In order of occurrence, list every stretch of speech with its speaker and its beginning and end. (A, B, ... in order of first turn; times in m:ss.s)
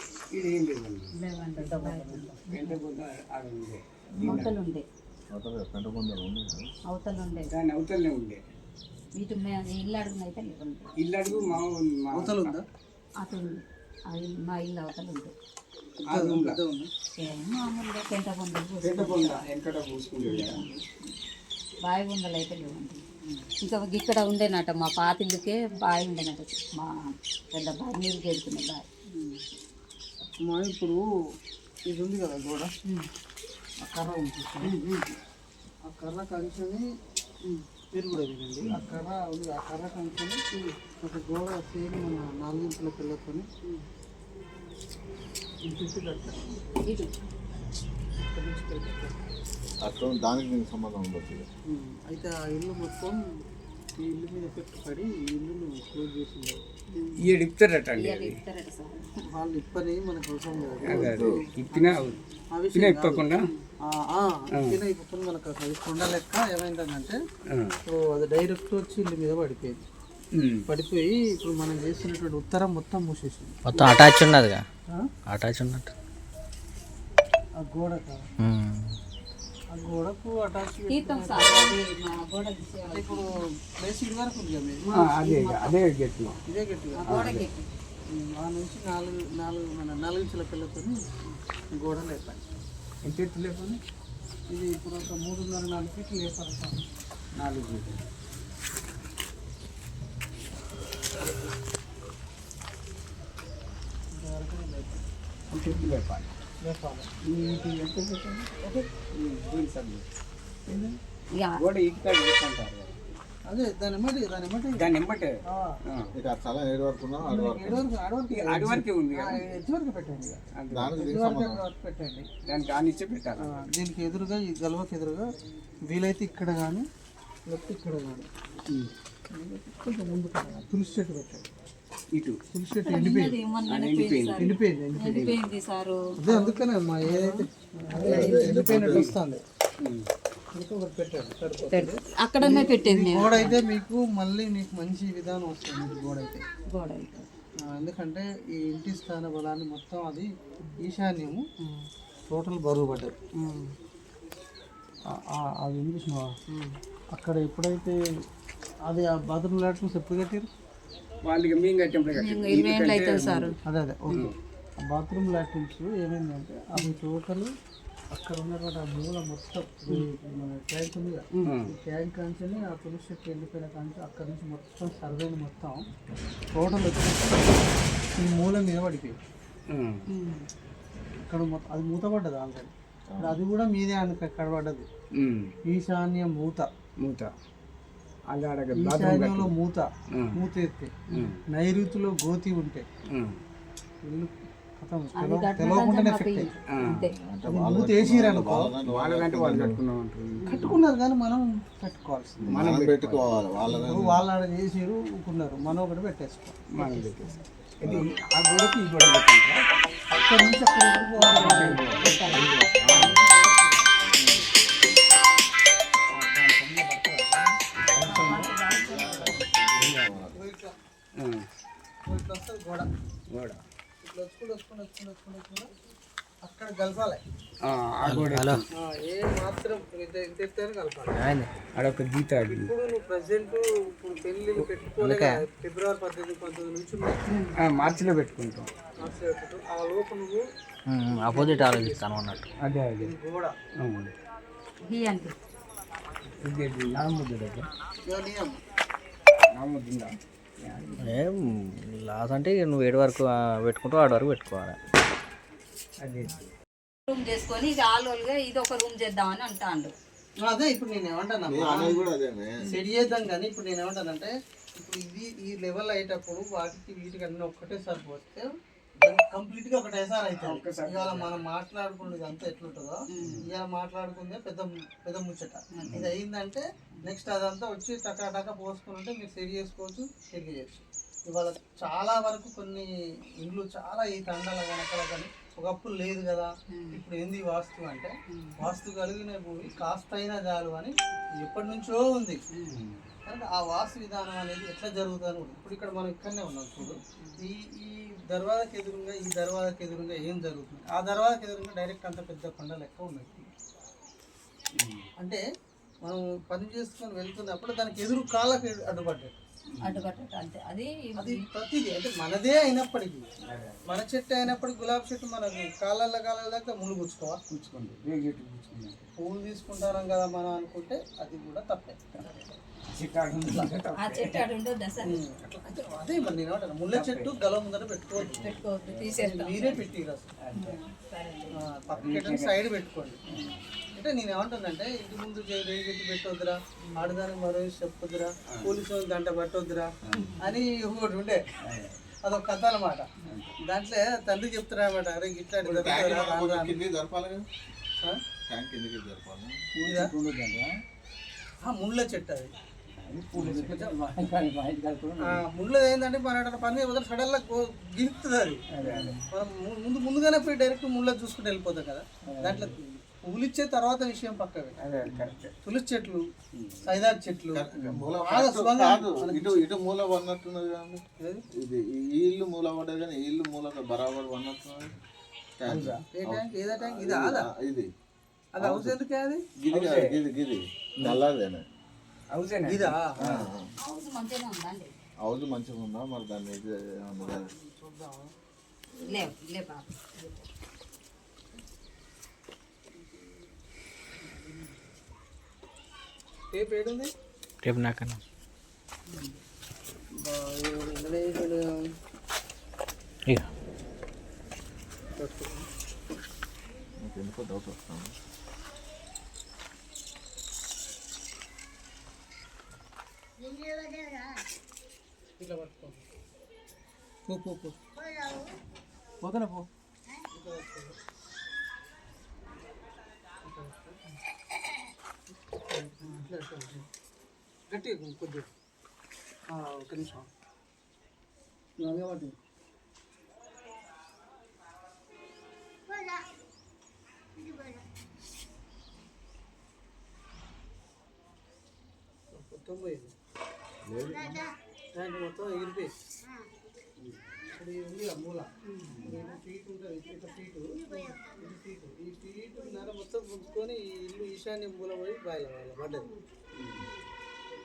0:00.3-0:01.1 A
0:01.2-0:02.7 B
0:01.6-0:02.4 C
0:02.5-0:04.5 A
0:04.1-0:04.5 D
0:04.2-0:04.8 B
0:05.3-0:06.7 D
0:06.9-0:07.5 B
0:07.5-0:08.4 A
0:09.2-0:10.9 B
0:11.0-0:12.5 A
0:12.1-0:12.6 C
0:13.2-0:15.3 B
0:16.0-0:16.6 A
0:16.0-0:16.9 C
0:17.2-0:19.4 B
0:18.8-0:20.6 A
0:21.8-0:23.0 B
0:23.6-0:28.8 B
0:30.3-0:31.0 C
0:31.8-0:32.7 C
0:33.8-0:34.8 C
0:34.7-0:35.1 B
0:35.8-0:36.8 C
0:37.9-0:40.4 C
0:41.0-0:43.5 C
0:45.6-0:46.4 C
0:46.9-0:47.2 B
0:48.2-0:49.1 C
0:49.8-0:51.5 D
0:51.7-0:53.3 C
0:54.0-0:56.6 C
0:56.9-0:57.2 B
0:57.2-0:58.4 A
0:58.0-0:59.3 B
0:59.3-1:03.2 C
1:00.8-1:01.4 D
1:00.8-1:02.2 A
1:02.7-1:03.4 A
1:03.9-1:07.2 C
1:07.8-1:09.8 C
1:10.4-1:10.6 A
1:10.7-1:13.6 C
1:13.6-1:14.6 E
1:13.7-1:14.0 A
1:15.3-1:15.9 E
1:17.6-1:18.2 C
1:18.4-1:18.9 E
1:19.7-1:21.8 C
1:20.9-1:23.2 B
1:22.9-1:24.8 C
1:24.9-1:26.4 A
1:24.9-1:25.7 B
1:26.4-1:27.2 C
1:27.0-1:27.7 B
1:27.1-1:27.5 A
1:28.1-1:31.0 C
1:31.7-1:32.4 C
1:33.0-1:33.8 A
1:34.5-1:36.8 C
1:37.4-1:38.0 A
1:44.1-1:45.0 C
1:45.5-1:46.4 A
1:46.6-1:47.1 C
1:47.3-1:48.6 A
1:49.1-1:50.0 A
1:51.4-1:51.6 B
1:51.6-1:53.0 A
1:53.4-1:54.8 C
1:54.8-1:55.3 A
1:55.4-1:55.8 C
1:56.2-1:57.9 D
1:57.2-2:00.4 C
1:58.3-1:59.4 A
2:00.6-2:01.0 A
2:00.7-2:01.6 D
2:01.0-2:02.3 C
2:02.4-2:03.6 A
2:03.4-2:05.3 C
2:05.9-2:06.8 C
2:07.5-2:08.3 C
2:09.3-2:11.5 C
2:12.1-2:12.4 A
2:12.5-2:13.3 C
2:12.8-2:17.4 B
2:13.7-2:14.5 A
2:14.4-2:15.4 C
2:16.2-2:19.4 C
2:17.9-2:19.1 D
2:18.3-2:19.1 A
2:19.8-2:20.1 A
2:20.5-2:26.4 C
2:21.7-2:23.6 B
2:26.7-2:27.3 B
2:27.6-2:31.4 C
2:32.3-2:33.1 C
2:35.1-2:36.3 C
2:37.1-2:38.0 C
2:38.8-2:40.5 C
2:41.2-2:43.6 A
2:42.2-2:43.6 B
2:43.6-2:47.5 C
2:44.1-2:44.3 A
2:48.1-2:55.8 C
2:51.4-2:51.7 A
2:56.5-2:59.2 C
2:59.7-3:00.0 A
3:00.1-3:00.4 B
3:01.2-3:04.9 C
3:03.1-3:03.4 D
3:05.2-3:05.5 A
3:05.6-3:06.7 C
3:07.0-3:07.3 A
3:08.3-3:09.5 A
3:08.7-3:10.9 C
3:11.1-3:11.4 A
3:11.5-3:12.8 C
3:13.1-3:13.4 A
3:14.0-3:16.5 C
3:15.2-3:17.1 B
3:16.7-3:17.1 A
3:16.9-3:19.8 D
3:17.5-3:18.7 C
3:18.8-3:20.7 A
3:20.5-3:22.6 C
3:22.4-3:24.2 D
3:22.5-3:23.2 A
3:23.8-3:27.0 C
3:26.7-3:29.6 A
3:27.8-3:28.2 D
3:30.1-3:34.0 C
3:31.2-3:33.2 A
3:31.2-3:32.4 B
3:31.7-3:32.1 E
3:34.2-3:34.5 A
3:36.1-3:37.5 C
3:37.9-3:38.5 A
3:38.0-3:38.4 C
3:38.0-3:39.4 B
3:38.6-3:40.4 D
3:39.7-3:40.2 A
3:40.3-3:40.7 C
3:41.2-3:41.4 A
3:42.0-3:42.9 C
3:43.3-3:43.6 A
3:44.0-3:45.7 C
3:46.4-3:47.2 C
3:47.6-3:48.6 A
3:48.0-3:48.6 E
3:48.7-3:51.2 C
3:51.2-3:51.5 E
3:51.8-3:52.7 A
3:52.4-3:57.2 C
3:55.0-3:55.4 E
3:57.3-3:57.5 B
3:57.6-3:58.7 A
3:57.8-3:58.0 C
3:59.0-4:00.4 C
4:00.9-4:02.4 E
4:01.1-4:02.4 C
4:02.6-4:03.1 A
4:02.9-4:03.5 C
4:03.8-4:04.1 A
4:04.8-4:05.4 B
4:06.4-4:07.7 A
4:08.0-4:08.6 C
4:09.6-4:11.2 A
4:11.0-4:14.8 E
4:16.0-4:16.5 A
4:17.1-4:19.9 B
4:20.4-4:22.1 C
4:21.5-4:22.6 D
4:22.7-4:28.5 C
4:29.0-4:42.9 C
4:30.4-4:31.4 A
4:33.2-4:33.4 A
4:35.8-4:36.1 A
4:43.4-4:52.4 C
4:52.7-4:53.0 A
4:53.3-5:03.5 C
5:04.8-5:05.0 A
5:05.2-5:05.4 C
5:06.0-5:09.3 C
5:09.7-5:10.1 A
5:09.8-5:11.4 B
5:11.2-5:13.3 C
5:13.4-5:13.8 A
5:13.8-5:17.4 C
5:17.5-5:19.0 A
5:19.2-5:22.0 C
5:22.9-5:24.5 A
5:23.4-5:23.7 C
5:23.9-5:25.1 B
5:25.0-5:28.5 C
5:26.9-5:27.3 A
5:28.2-5:29.9 A
5:28.3-5:29.7 B
5:29.2-5:30.3 C
5:30.4-5:30.8 A
5:30.6-5:31.6 B
5:31.5-5:33.2 C
5:32.0-5:32.6 A
5:33.3-5:33.6 A
5:33.9-5:41.4 C
5:40.0-5:40.4 A
5:41.6-5:42.0 A
5:42.2-5:43.1 C
5:43.2-5:43.5 A
5:43.6-5:46.8 C
5:45.6-5:47.5 D
5:48.5-5:49.5 D
5:49.8-5:50.7 A
5:49.8-5:50.1 C
5:51.6-5:52.5 C
5:53.0-5:55.4 A
5:53.4-5:54.2 C
5:55.2-6:04.8 C
5:58.7-5:59.2 A
6:02.3-6:02.8 A
6:04.8-6:05.5 A
6:05.6-6:06.2 C
6:06.5-6:07.0 A
6:06.8-6:09.6 C
6:07.5-6:11.0 D
6:07.8-6:08.0 A
6:11.2-6:11.4 C
6:11.5-6:15.0 D
6:15.6-6:17.9 D
6:15.7-6:16.0 A
6:16.1-6:17.5 C
6:18.5-6:19.4 C
6:18.6-6:19.0 D
6:19.6-6:21.6 D
6:19.7-6:20.2 A
6:22.3-6:23.4 A
6:22.6-6:23.1 C
6:23.2-6:23.7 D
6:23.8-6:24.9 B
6:25.2-6:27.5 D
6:27.2-6:28.3 C
6:29.0-6:29.3 C
6:29.0-6:29.9 B
6:33.0-6:33.3 C
6:34.2-6:34.6 C
6:36.5-6:37.1 C
6:37.6-6:38.2 E
6:40.1-6:41.8 C
6:45.2-6:45.7 C
6:47.0-6:48.1 D
6:55.4-6:56.0 C
6:57.3-6:57.8 C
6:59.2-6:59.6 C
7:00.3-7:01.0 C
7:03.4-7:04.0 C
7:05.7-7:06.8 C
7:07.7-7:08.5 C
7:09.5-7:10.3 C
7:11.8-7:12.3 C
7:22.3-7:23.1 C
7:23.8-7:24.5 D
7:24.9-7:25.9 C
7:27.5-7:36.1 C
7:28.8-7:29.3 A
7:36.6-7:36.9 A